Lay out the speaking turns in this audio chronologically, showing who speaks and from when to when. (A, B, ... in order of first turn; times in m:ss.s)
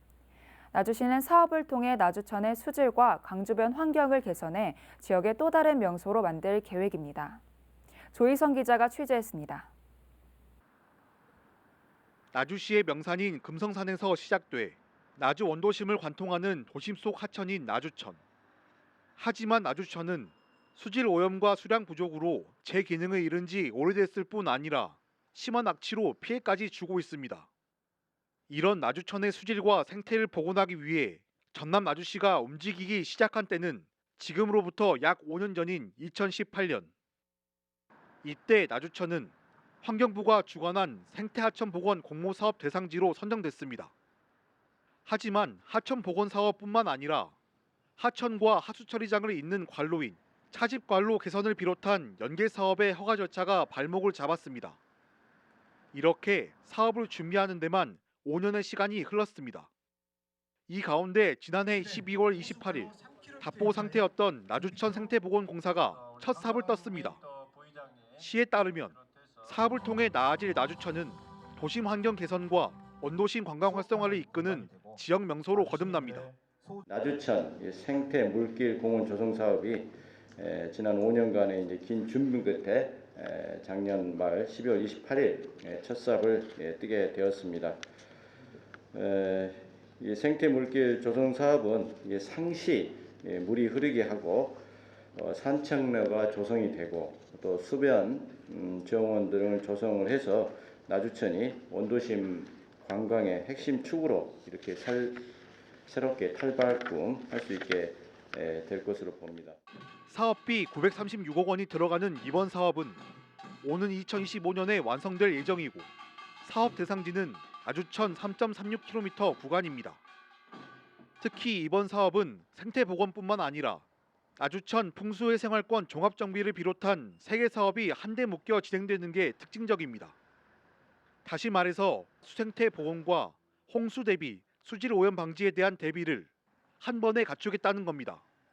0:00.7-0:07.4 A
0:08.1-0:09.7 A
0:12.3-0:18.2 B
0:19.2-0:27.5 B
0:28.5-0:36.9 B
0:38.2-0:43.9 B
0:45.0-0:47.3 B
0:48.0-0:54.8 B
0:55.9-0:59.7 B
1:00.7-1:07.2 B
1:06.0-1:08.2 C
1:08.2-1:16.3 B
1:08.9-1:09.5 C
1:16.8-1:27.8 C
1:28.9-1:34.6 C
1:35.1-1:45.3 C
1:45.8-1:49.6 C
1:50.1-1:53.0 B
1:53.6-1:55.9 B
1:56.4-2:00.0 B
2:01.2-2:03.8 B
2:04.4-2:10.2 B
2:11.2-2:18.2 B